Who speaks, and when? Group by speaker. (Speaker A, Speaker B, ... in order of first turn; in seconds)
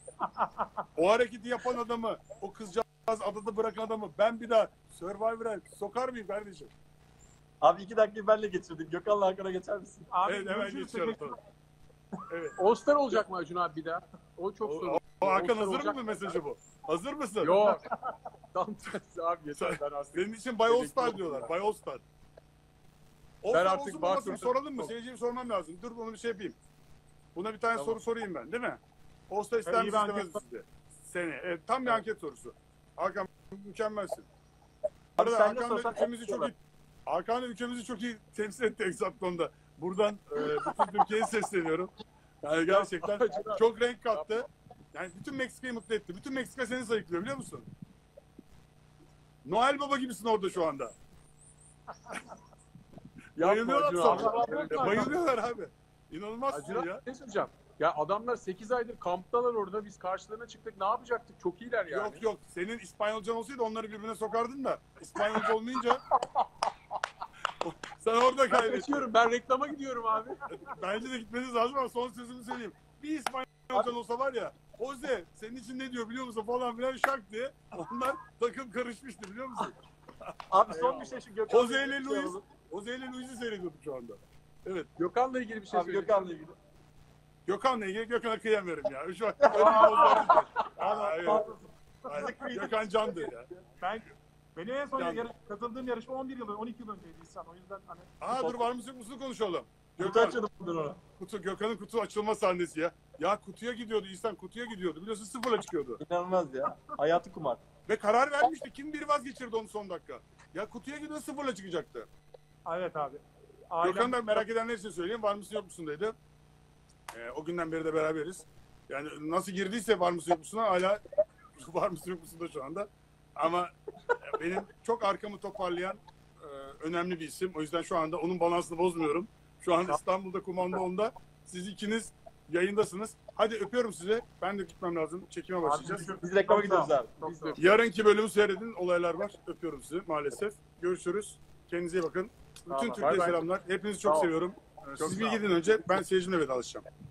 Speaker A: 0.2-0.9, 10.1-11.3, 29.6-30.4, 54.0-55.1, 90.8-92.3, 93.8-98.2, 112.7-114.4, 135.6-137.6, 142.7-143.3
Speaker B: 0.9-6.7, 10.2-11.4, 12.3-12.6, 14.6-17.8, 19.6-22.0, 23.4-26.6, 27.3-34.3, 35.1-47.7, 49.4-51.0, 53.4-57.0, 61.9-66.0, 67.6-69.1, 70.5-80.9, 81.5-84.9, 87.5-91.5, 92.1-93.5, 95.0-95.2, 98.2-100.4, 101.2-106.0, 107.8-112.1, 113.8-116.2, 117.1-121.0, 121.5-136.2, 137.6-146.8
Speaker C: 7.6-10.1, 35.2-36.5, 80.5-82.4, 85.7-86.5, 89.4-91.5, 92.1-93.4, 100.0-101.0, 106.0-107.6, 136.1-137.1
Speaker D: 12.6-16.4, 17.4-18.0, 18.5-21.5, 23.5-24.9, 42.7-44.4, 53.4-55.1, 56.5-62.2, 68.5-70.5, 80.8-81.1, 85.0-86.3, 137.2-137.8, 142.7-143.5, 144.0-144.3, 145.0-145.8